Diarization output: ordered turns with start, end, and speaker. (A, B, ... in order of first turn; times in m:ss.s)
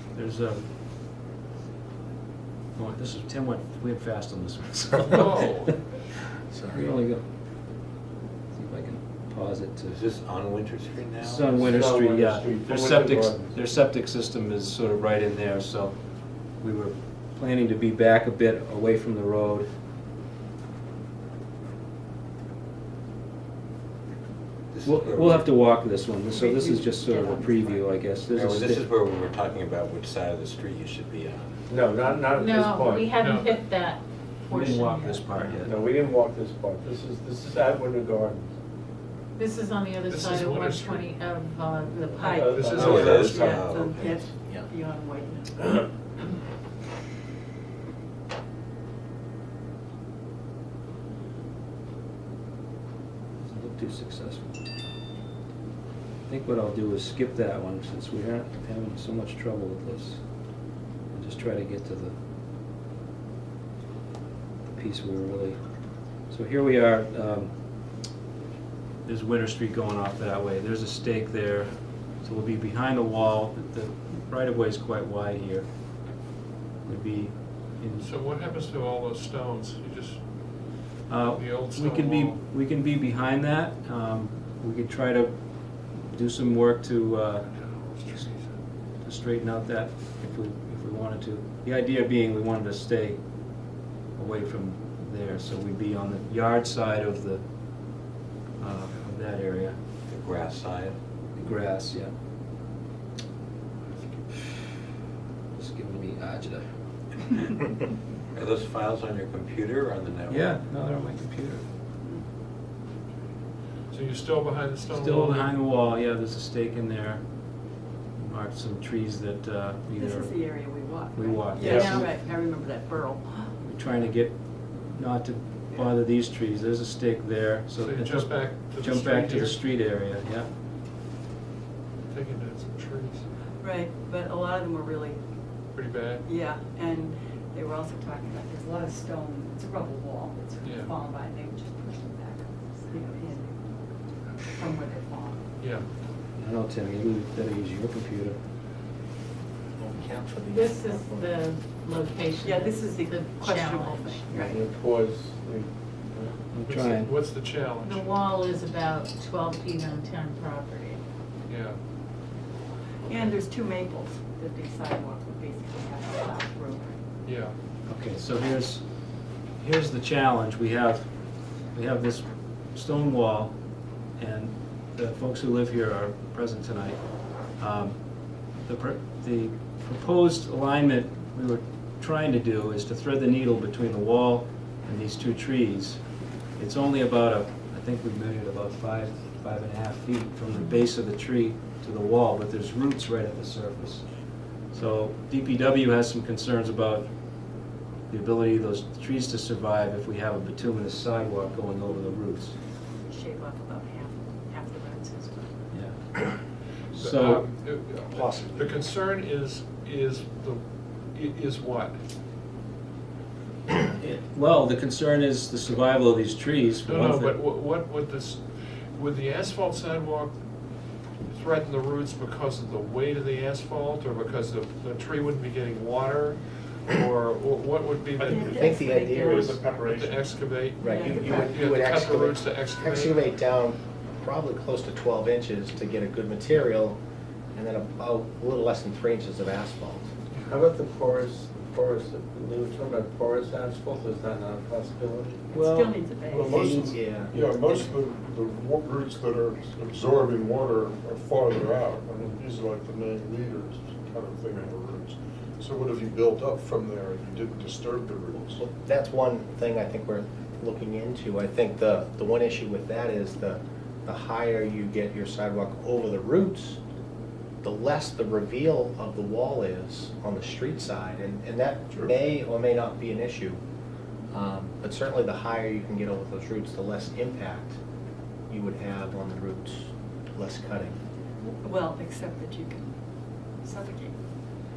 0:00.2-0:00.6 A
0:02.8-0:05.5 A
0:05.0-0:05.8 B
0:06.5-0:06.8 C
0:06.7-0:07.2 A
0:08.5-0:10.0 A
0:09.9-0:11.8 D
0:11.2-0:16.0 A
0:11.7-0:13.5 E
0:16.6-0:19.7 A
0:24.7-0:25.7 D
0:24.8-0:28.8 A
0:26.3-0:27.9 F
0:28.3-0:31.5 D
0:31.7-0:33.1 E
0:32.3-0:35.3 G
0:33.2-0:33.6 B
0:34.5-0:35.7 A
0:35.4-0:38.5 E
0:39.4-0:42.7 G
0:40.1-0:41.1 B
0:42.0-0:42.6 F
0:42.4-0:43.4 E
0:42.4-0:43.4 B
0:42.8-0:44.2 D
0:43.2-0:45.9 F
0:44.4-0:44.7 C
0:53.4-0:54.6 A
0:56.3-1:00.2 A
1:01.1-1:02.1 A
1:04.7-1:05.6 A
1:06.3-1:07.5 A
1:09.0-1:11.7 A
1:12.2-1:15.7 A
1:16.8-1:18.1 A
1:18.0-1:20.2 B
1:21.1-1:25.4 A
1:21.3-1:22.4 B
1:26.0-1:27.5 A
1:27.5-1:28.5 B
1:29.0-1:33.2 A
1:34.2-1:37.4 A
1:38.6-1:39.8 A
1:40.1-1:41.0 D
1:41.4-1:42.1 A
1:45.6-1:46.6 A
1:48.4-1:50.5 D
1:50.3-1:51.6 A
1:53.9-1:55.6 B
1:54.9-1:57.2 A
1:58.2-2:00.6 A
2:00.0-2:03.5 F
2:01.1-2:02.1 A
2:01.7-2:02.1 G
2:03.6-2:10.5 A
2:07.8-2:09.6 B
2:12.1-2:13.3 B
2:13.6-2:15.2 F
2:15.8-2:16.2 B
2:16.2-2:23.6 F
2:20.6-2:20.9 B
2:24.5-2:25.4 F
2:25.6-2:25.9 B
2:26.4-2:28.4 A
2:29.8-2:31.3 C
2:30.5-2:34.4 G
2:32.4-2:34.6 F
2:34.4-2:36.4 E
2:36.5-2:37.1 A
2:36.6-2:38.1 B
2:37.8-2:41.0 G
2:41.5-2:41.8 B
2:43.1-2:46.9 F
2:47.2-2:47.6 B
2:47.9-2:48.8 A
2:49.6-2:51.1 A
2:51.7-2:53.6 A
2:54.2-2:57.0 A
2:57.6-2:58.0 A
2:58.7-3:06.0 A
3:06.6-3:14.0 A
3:14.7-3:17.1 A
3:18.1-3:22.6 A
3:23.1-3:25.5 F
3:25.7-3:26.0 A
3:26.9-3:27.4 A
3:26.9-3:30.6 B
3:28.1-3:28.8 C
3:31.2-3:32.0 B
3:34.0-3:37.4 A
3:36.9-3:38.4 B
3:39.0-3:40.4 B
3:41.3-3:48.6 B
3:48.2-3:49.7 F
3:48.2-3:50.4 H
3:48.5-3:49.6 C
3:49.8-3:53.4 B
3:50.8-3:51.6 F
3:50.8-3:57.0 C
3:57.6-4:00.1 C
4:00.5-4:05.4 E
4:05.5-4:06.8 F
4:05.5-4:07.0 A
4:06.3-4:18.6 H
4:06.7-4:07.3 C
4:18.6-4:26.8 C
4:27.6-4:33.6 C
4:31.9-4:32.2 H
4:34.3-4:37.8 C
4:38.5-4:41.0 C
4:41.6-4:43.0 F
4:43.6-4:44.1 F